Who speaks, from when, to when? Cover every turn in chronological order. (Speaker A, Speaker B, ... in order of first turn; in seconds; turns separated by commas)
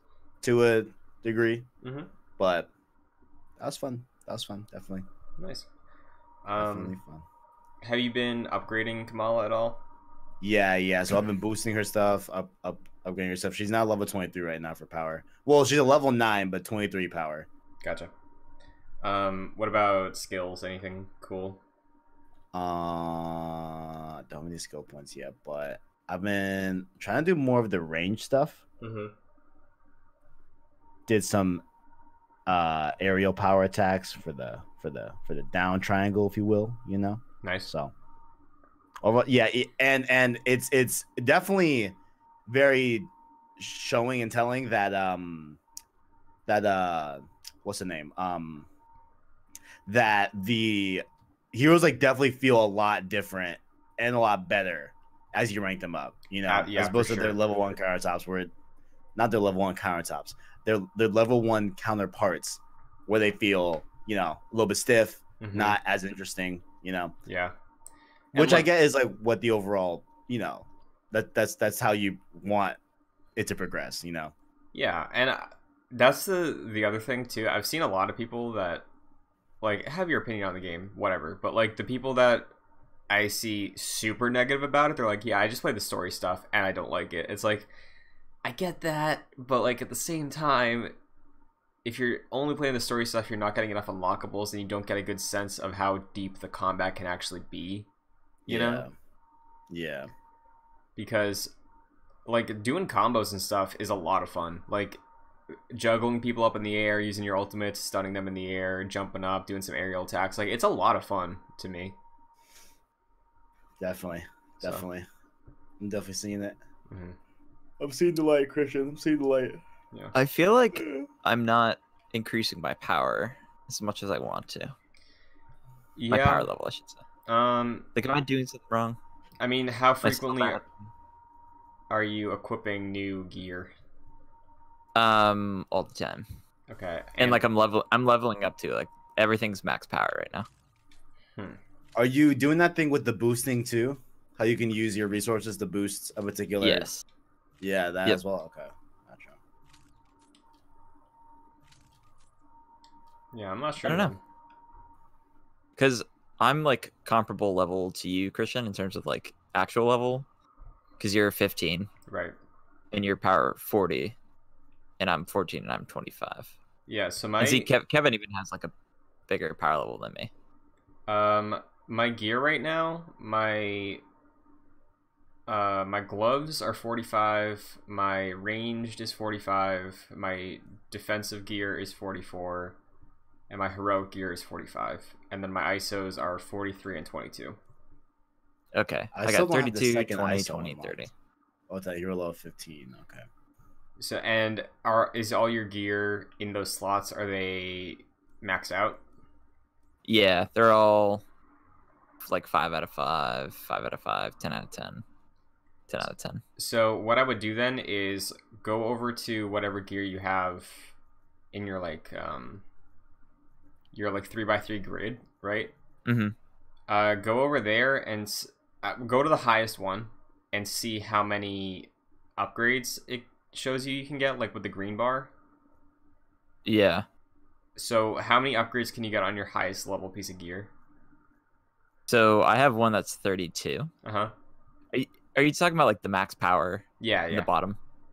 Speaker A: 0.4-1.6, Speaker B: 1.8-2.1, Speaker A: 2.4-2.7, Speaker A: 3.6-5.0, Speaker B: 5.4-5.7, Speaker B: 6.4-7.0, Speaker A: 6.6-7.2, Speaker B: 7.8-9.8, Speaker A: 10.4-17.5, Speaker B: 17.8-18.1, Speaker B: 19.0-21.6, Speaker A: 22.5-28.6, Speaker B: 28.8-29.1, Speaker A: 31.1-31.6, Speaker A: 32.5-37.9, Speaker B: 37.4-37.7, Speaker A: 39.0-41.9, Speaker A: 42.5-45.6, Speaker A: 46.5-48.7, Speaker A: 49.9-58.5, Speaker B: 56.5-57.4, Speaker A: 59.1-67.1, Speaker B: 65.4-65.8, Speaker B: 67.2-67.5, Speaker B: 68.3-68.7, Speaker A: 68.3-72.8, Speaker A: 73.3-74.3, Speaker B: 74.7-78.8, Speaker B: 79.6-82.5, Speaker B: 83.1-87.7, Speaker B: 88.4-90.9, Speaker B: 91.8-97.9, Speaker B: 98.5-98.8, Speaker A: 98.5-98.9, Speaker A: 99.7-100.1, Speaker B: 101.0-101.5, Speaker B: 102.2-105.0, Speaker B: 105.5-111.9, Speaker A: 113.8-115.0, Speaker A: 115.8-116.5, Speaker B: 116.9-117.2, Speaker A: 117.8-119.6, Speaker C: 120.1-124.7, Speaker A: 120.7-121.0, Speaker B: 126.0-126.5, Speaker C: 126.1-127.0, Speaker B: 127.3-127.9, Speaker C: 127.9-129.0, Speaker B: 129.4-130.6, Speaker C: 130.0-130.7, Speaker B: 131.9-133.7, Speaker C: 134.9-136.2, Speaker B: 136.7-137.4, Speaker C: 137.2-140.5, Speaker A: 141.9-146.9, Speaker C: 146.6-147.0, Speaker A: 147.6-149.4, Speaker B: 153.3-154.2, Speaker C: 153.8-154.1, Speaker C: 155.8-160.2, Speaker C: 161.0-161.9, Speaker B: 162.1-162.3, Speaker C: 162.9-164.2, Speaker C: 165.0-166.5, Speaker B: 166.9-167.7, Speaker C: 167.4-168.7, Speaker C: 169.3-170.3, Speaker B: 171.1-174.0, Speaker B: 175.5-182.8, Speaker B: 183.5-187.6, Speaker C: 188.7-191.1, Speaker A: 189.1-191.0, Speaker A: 191.7-193.2, Speaker B: 194.0-199.0, Speaker C: 200.0-201.2, Speaker C: 202.2-205.0, Speaker C: 205.9-206.4, Speaker B: 206.6-210.9, Speaker B: 211.5-212.6, Speaker B: 213.9-215.7, Speaker C: 216.1-216.3, Speaker B: 216.9-225.3, Speaker C: 226.6-227.1, Speaker B: 227.8-230.7, Speaker C: 232.1-233.9, Speaker B: 234.0-234.3, Speaker C: 234.9-237.8, Speaker B: 237.0-237.5